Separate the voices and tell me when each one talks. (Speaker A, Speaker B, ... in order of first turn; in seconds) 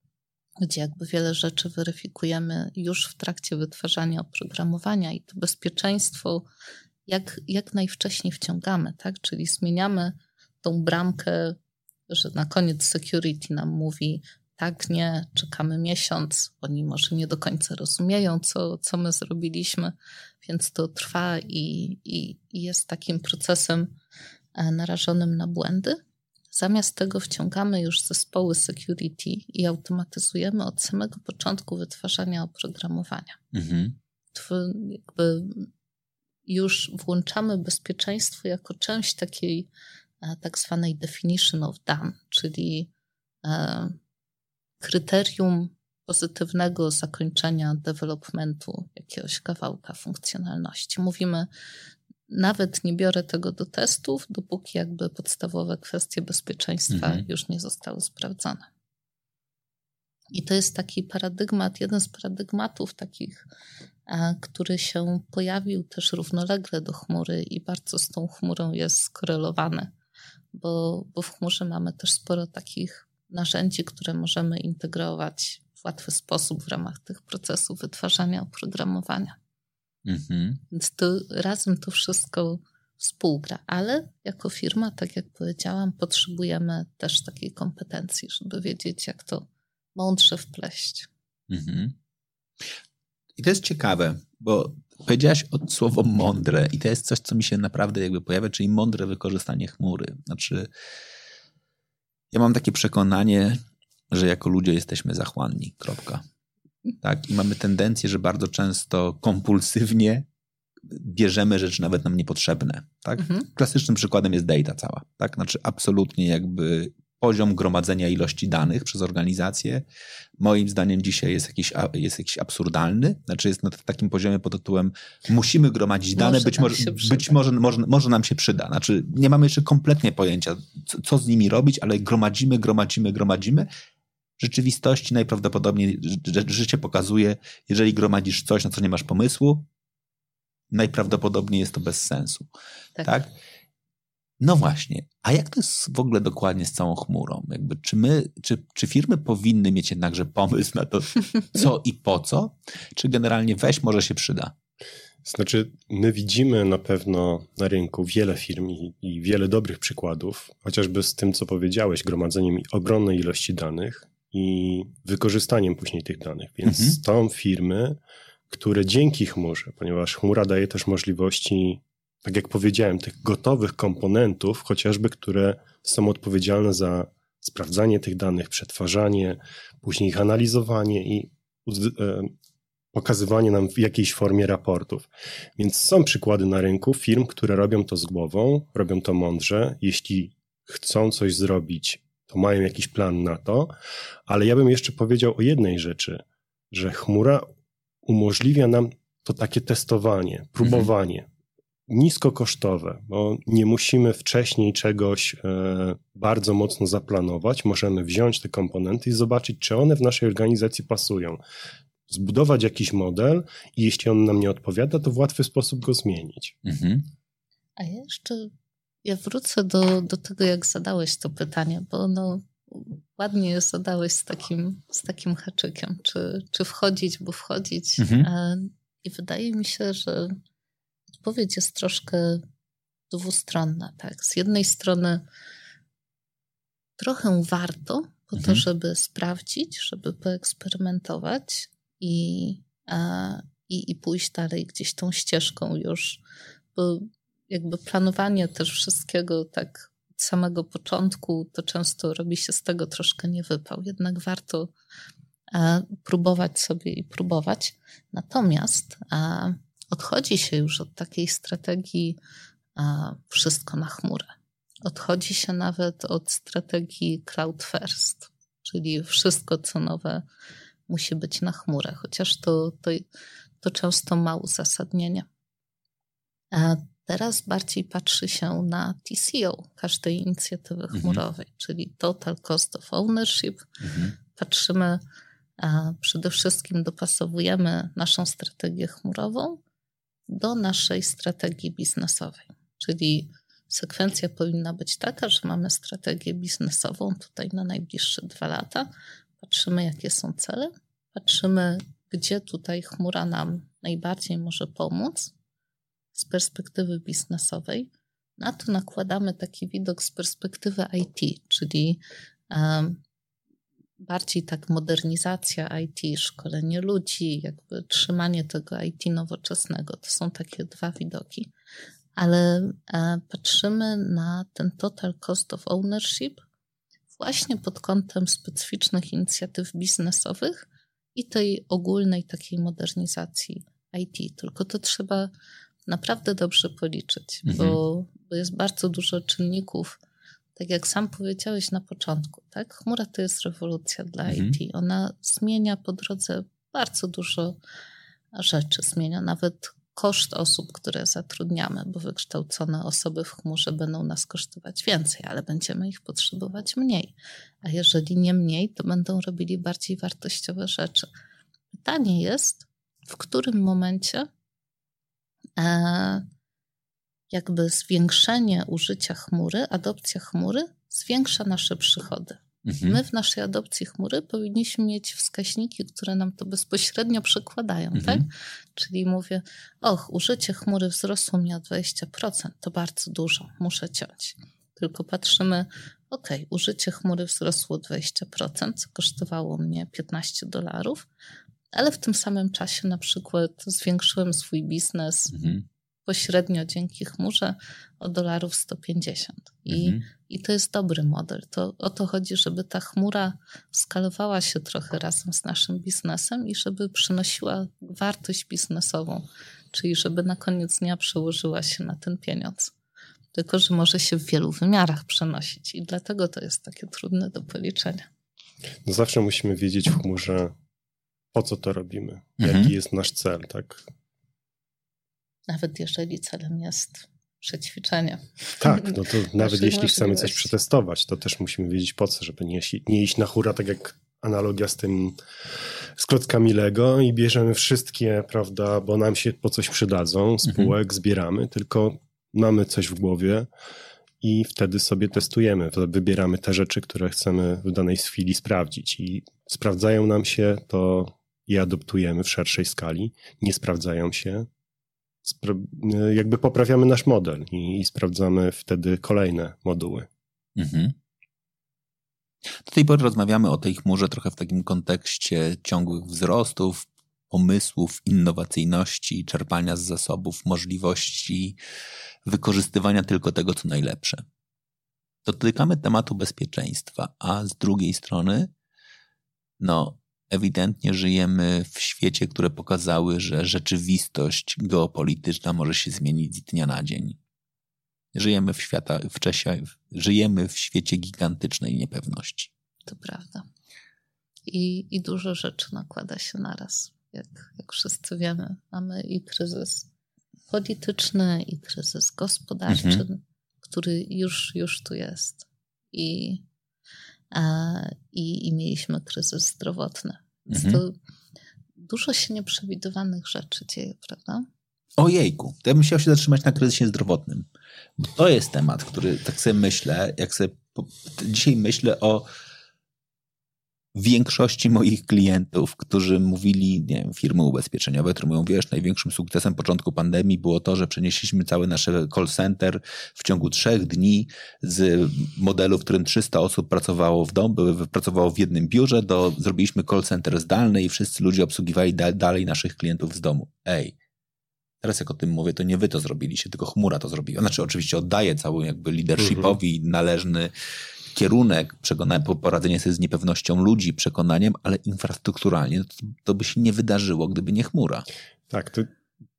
Speaker A: 0.6-6.5, 7.1-11.6, 12.1-23.9, 24.6-26.0, 26.5-33.4, 34.3-35.7, 36.5-39.7, 40.2-42.9, 43.4-44.0, 44.8-51.5, 52.3-58.7, 60.3-63.5, 64.1-69.9, 70.5-79.4, 80.7-91.1, 113.2-113.4, 126.2-127.4, 217.8-218.5, 219.1-230.4, 231.2-232.4, 233.1-235.2, 237.0-246.2, 246.8-254.7, 255.5-262.2, 262.8-264.3, 264.9-270.2, 270.9-273.1, 273.6-275.3, 276.5-283.7, 284.3-285.0, 285.6-289.6, 290.3-298.9, 299.4-305.3, 306.1-313.0, 314.0-321.5, 322.2-326.4, 327.1-335.3, 335.9-340.0, 340.6-347.6, 348.4-361.1, 361.7-364.3, 365.6-366.3, 367.3-391.1, 391.7-395.3, 396.1-412.7, 413.3-418.1, 425.5-430.5, 492.9-493.5, 494.5-499.9, 500.5-506.4, 507.3-510.9, 511.8-514.5
Speaker B: 33.5-34.0, 56.9-57.2, 80.1-80.6, 91.5-92.0, 93.4-100.7, 102.3-103.6, 104.1-106.2, 107.0-110.3, 110.9-119.8, 120.4-133.7, 134.4-139.7, 140.7-142.5, 143.0-143.3, 144.4-154.5, 166.7-167.0, 200.6-200.9, 216.7-217.1, 228.0-228.3, 238.4-238.6, 280.9-281.2, 283.8-284.1, 337.5-337.8, 344.3-344.6, 372.6-373.0, 377.9-378.3, 395.3-395.6, 399.7-400.0, 422.4-422.7, 440.5-440.7, 460.6-460.9, 462.6-471.6, 472.2-474.2, 475.2-478.5, 479.6-487.2, 488.1-492.5, 502.7-503.0, 510.5-510.8, 515.0-517.5, 518.0-522.3, 524.0-544.0, 544.8-550.5, 551.1-558.1
Speaker C: 155.2-182.3, 182.9-193.7, 194.3-197.5, 198.0-201.3, 201.9-211.4, 212.1-216.6, 418.9-420.5, 421.3-423.8, 428.6-435.2, 436.0-443.5, 444.2-454.5, 455.2-460.1, 549.2-549.5, 558.5-558.9